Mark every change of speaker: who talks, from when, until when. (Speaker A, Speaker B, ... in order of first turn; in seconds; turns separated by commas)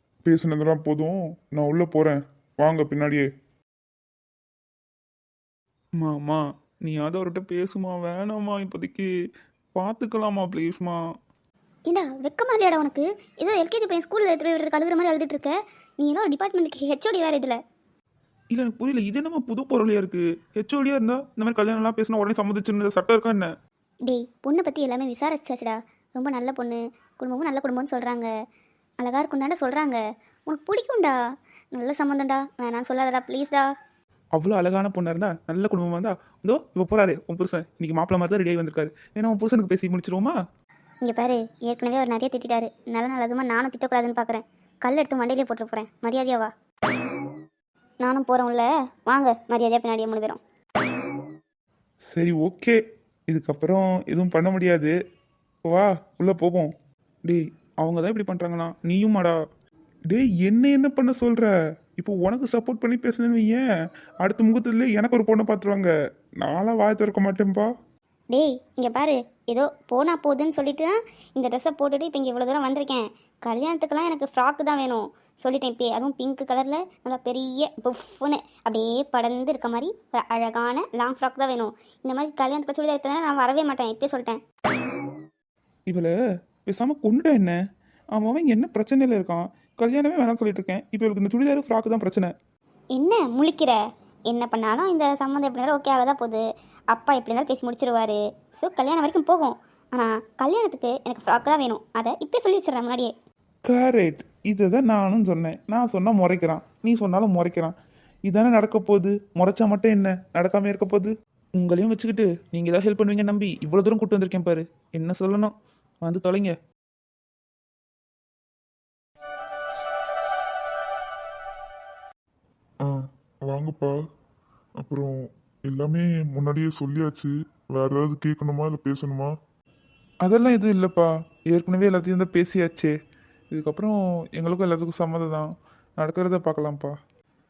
Speaker A: 0.2-3.2, Speaker A: 6.0-9.1, Speaker A: 9.8-11.0, Speaker B: 11.9-17.6, Speaker A: 18.5-23.5, Speaker B: 24.1-28.3, Speaker B: 29.0-31.2, Speaker B: 31.7-33.7, Speaker A: 34.4-40.3, Speaker B: 41.0-46.5, Speaker B: 48.0-50.4, Speaker A: 52.1-54.9, Speaker A: 55.7-56.7, Speaker A: 57.2-59.4, Speaker A: 60.1-63.6, Speaker A: 64.2-65.9, Speaker A: 66.4-67.7, Speaker B: 68.3-84.4, Speaker A: 86.7-87.6, Speaker A: 88.1-92.3, Speaker B: 92.9-103.1, Speaker A: 103.7-107.7, Speaker A: 108.3-115.5, Speaker A: 116.0-116.5, Speaker C: 122.8-123.9, Speaker C: 124.8-125.2, Speaker C: 125.7-129.3, Speaker A: 130.2-132.9, Speaker A: 133.5-136.9